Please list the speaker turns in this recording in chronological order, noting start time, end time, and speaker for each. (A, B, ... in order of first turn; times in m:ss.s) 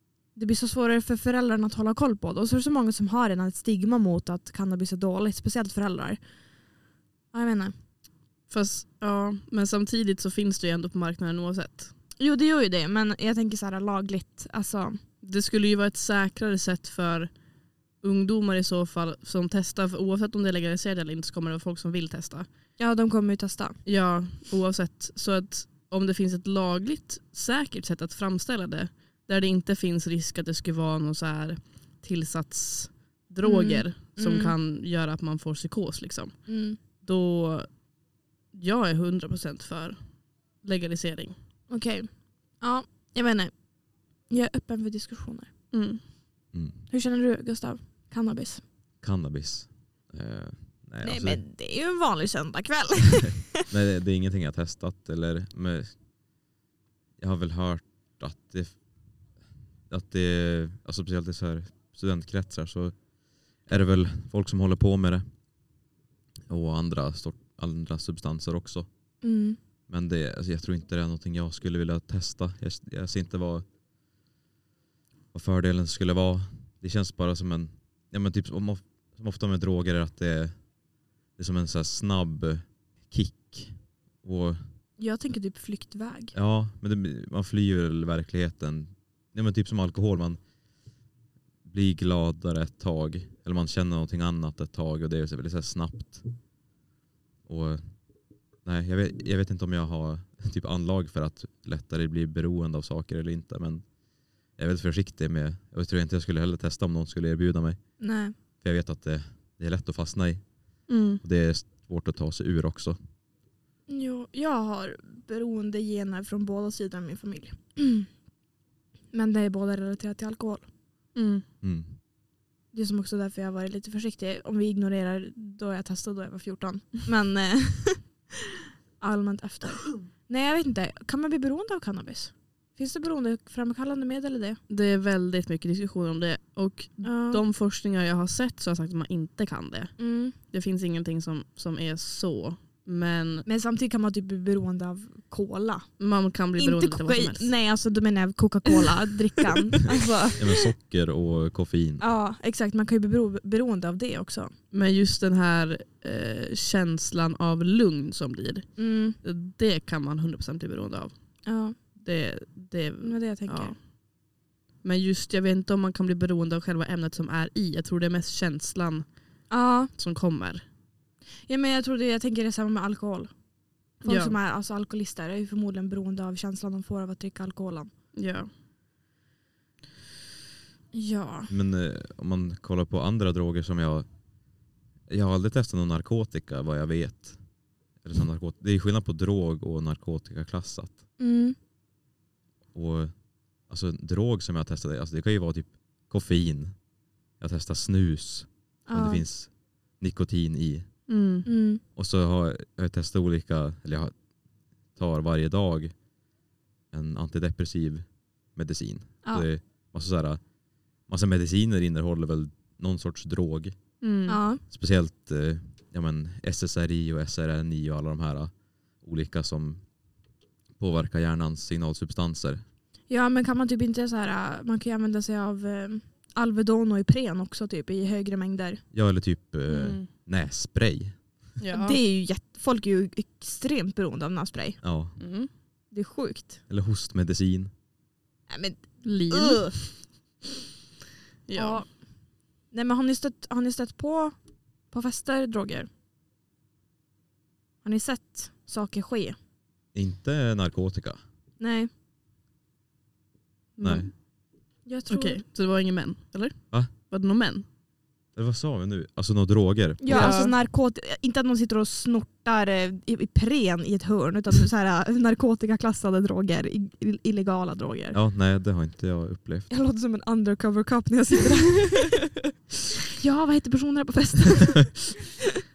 0:00.3-0:06.3 A
0:07.3-0:07.7 A
0:08.5-0:11.9 B
0:12.2-0:15.0 A
0:15.2-0:17.3 B
0:18.0-0:22.5 B
0:22.8-0:23.8 A
0:23.8-0:37.8 B
0:33.4-0:34.6 A
0:36.5-0:36.8 A
0:38.5-0:41.4 B
0:41.7-0:45.5 A
0:45.7-0:46.0 B
0:46.5-0:46.8 C
0:46.9-0:48.6 A
0:49.0-0:51.4 C
0:51.0-0:53.6 A
0:53.7-0:56.0 C
0:57.2-1:05.5 C
1:06.5-1:08.9 C
1:09.2-1:09.6 A
1:09.9-1:13.7 C
1:15.3-1:20.7 C
1:21.3-1:24.7 C
1:25.0-1:26.3 A
1:26.3-1:30.5 C
1:31.6-1:36.4 C
1:37.4-1:53.0 C
1:48.0-1:48.3 A
1:50.9-1:51.2 B
1:53.9-1:58.2 A
1:59.1-2:00.7 A
2:01.1-2:01.4 B
2:01.6-2:02.0 C
2:02.7-2:08.3 A
2:09.0-2:14.6 A
2:14.7-2:23.4 B
2:17.0-2:17.4 A
2:20.0-2:20.3 A
2:23.4-2:26.0 A
2:26.0-2:27.5 B
2:26.6-2:30.5 A
2:30.4-2:32.0 C
2:32.0-2:34.5 A
2:34.7-2:43.8 B
2:38.8-2:39.2 A
2:41.4-2:41.8 A
2:43.0-2:43.8 A
2:44.8-2:50.6 B
2:49.5-2:49.9 A
2:51.5-2:57.9 A
2:54.0-2:54.4 B
2:58.1-2:58.5 B
3:00.9-3:01.5 A
3:01.5-3:04.5 C
3:05.1-3:11.1 C
3:11.2-3:11.6 A
3:12.7-3:21.1 C
3:18.8-3:19.2 A
3:21.1-3:21.5 B
3:21.4-3:21.8 A
3:21.9-3:24.3 C
3:24.8-3:26.1 C
3:26.9-3:33.9 C
3:29.2-3:29.5 A
3:34.0-3:34.4 B
3:34.3-3:34.6 A
3:34.7-3:40.0 C
3:40.8-3:42.6 C
3:43.1-3:48.8 A
3:48.9-3:51.4 C
3:49.7-3:50.1 B
3:51.6-3:52.0 B
3:51.7-3:54.8 A
3:54.8-3:55.2 C
3:55.2-3:55.5 B
3:55.9-3:56.6 A
3:56.7-3:57.7 C
3:58.5-4:00.0 A
3:59.0-4:00.0 B
4:01.5-4:01.8 B
4:01.5-4:05.9 A
4:07.8-4:09.4 A
4:09.9-4:11.2 C
4:11.6-4:11.9 A
4:13.8-4:14.2 B
4:13.8-4:14.1 C
4:14.8-4:15.4 A
4:15.1-4:17.6 B
4:18.3-4:20.4 C
4:20.0-4:28.2 A
4:20.1-4:20.5 B
4:28.1-4:29.7 C
4:29.7-4:32.3 A
4:33.2-4:35.4 A